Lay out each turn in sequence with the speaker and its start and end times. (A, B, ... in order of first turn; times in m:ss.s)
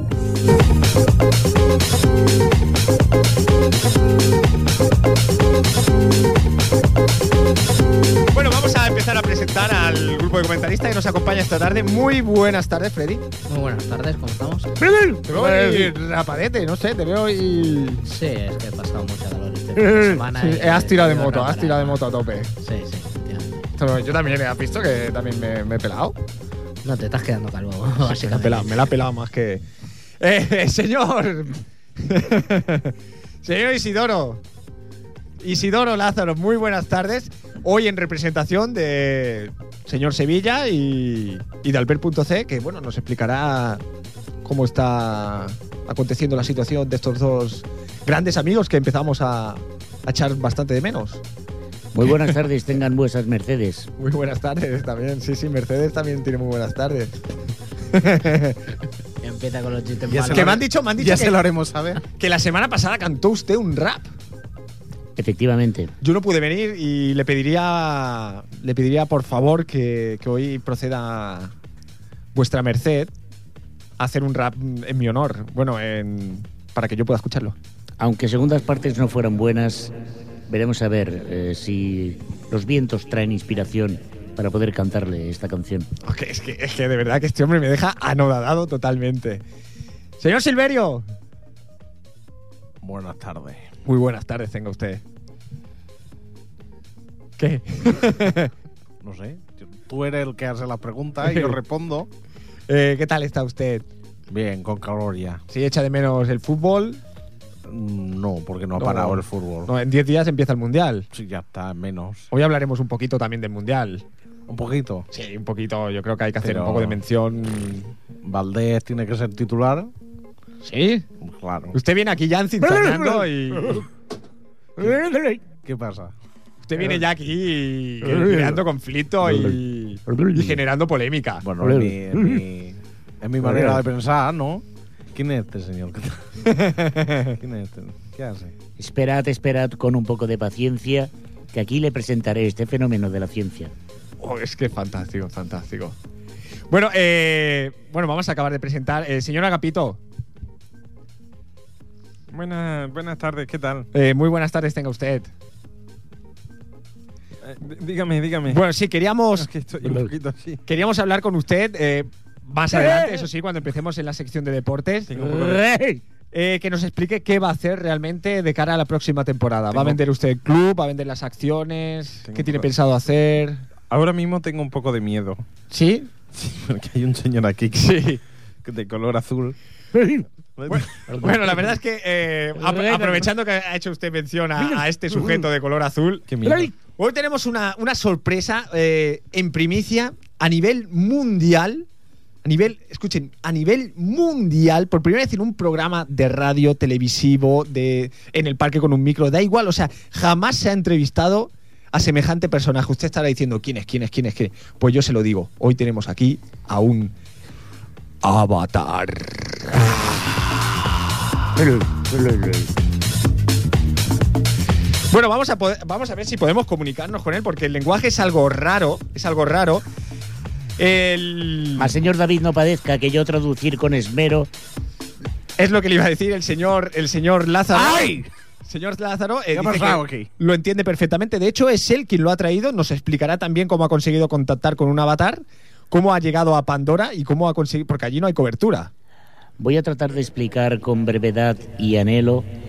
0:08.3-0:13.3 A
0:13.5-0:14.7 B
0:14.9-0:15.9 C
0:15.2-0:18.0 A
0:18.0-0:22.0 B
0:19.8-0:22.5 A
0:22.6-0:23.7 B
0:23.8-0:26.2 A
0:26.8-0:28.8 B
0:28.0-0:29.6 A
0:30.2-0:34.4 A
0:35.4-0:43.8 A
0:44.4-0:51.2 A
0:51.9-0:53.9 C
0:54.0-0:57.2 A
0:57.9-0:58.6 A
0:59.2-1:00.6 B
1:00.1-1:02.0 D
1:00.3-1:01.4 A
1:02.2-1:04.1 A
1:05.2-1:05.9 C
1:06.0-1:11.5 A
1:12.3-1:13.1 A
1:14.0-1:17.5 A
1:18.0-1:19.9 C
1:20.5-1:25.9 C
1:26.0-1:29.4 A
1:30.2-1:31.0 A
1:32.8-1:33.7 D
1:33.8-1:35.0 A
1:37.4-1:38.5 A
1:39.0-1:42.1 D
1:41.2-1:41.6 A
1:42.7-1:43.8 A
1:44.3-1:45.4 D
1:45.5-1:47.0 A
1:47.7-1:49.7 D
1:48.8-1:51.1 A
1:51.1-1:52.3 D
1:52.3-1:54.0 A
1:54.5-1:55.1 D
1:55.1-1:57.9 A
1:56.4-1:57.0 D
1:58.2-1:59.9 D
2:00.6-2:01.0 A
2:01.2-2:01.8 D
2:01.7-2:03.8 A
2:02.6-2:03.8 C
2:04.8-2:05.4 C
2:05.6-2:06.1 D
2:06.6-2:11.4 A
2:08.0-2:08.6 C
2:09.2-2:10.6 C
2:11.4-2:16.2 D
2:11.6-2:12.4 C
2:13.4-2:13.8 C
2:16.5-2:17.2 A
2:17.3-2:18.5 D
2:18.8-2:23.7 C
2:24.2-2:26.0 A
2:26.7-2:30.0 A
2:32.3-2:33.9 E
2:33.9-2:35.3 A
2:37.5-2:38.6 E
2:38.4-2:39.5 A
2:39.6-2:40.6 E
2:39.8-2:40.1 D
2:40.7-2:45.2 A
2:45.2-2:45.6 E
2:45.2-2:46.0 C
2:46.3-2:53.6 A
2:53.9-2:55.4 E
2:55.7-2:56.1 A
2:56.3-2:57.9 D
2:57.7-2:58.2 A
2:58.6-2:59.6 D
2:59.9-3:00.2 C
3:00.6-3:00.8 D
3:00.7-3:06.3 A
3:01.1-3:01.4 C
3:02.6-3:03.2 C
3:06.3-3:06.7 D
3:06.4-3:06.7 C
3:07.0-3:11.9 A
3:12.4-3:27.1 A
3:28.2-3:29.7 A
3:31.6-3:32.7 C
3:35.1-3:39.8 A
3:40.8-3:42.0 A
3:41.8-3:44.5 C
3:45.6-3:58.9 A
3:47.7-3:48.3 D
3:49.5-3:50.3 D
3:59.6-4:02.5 C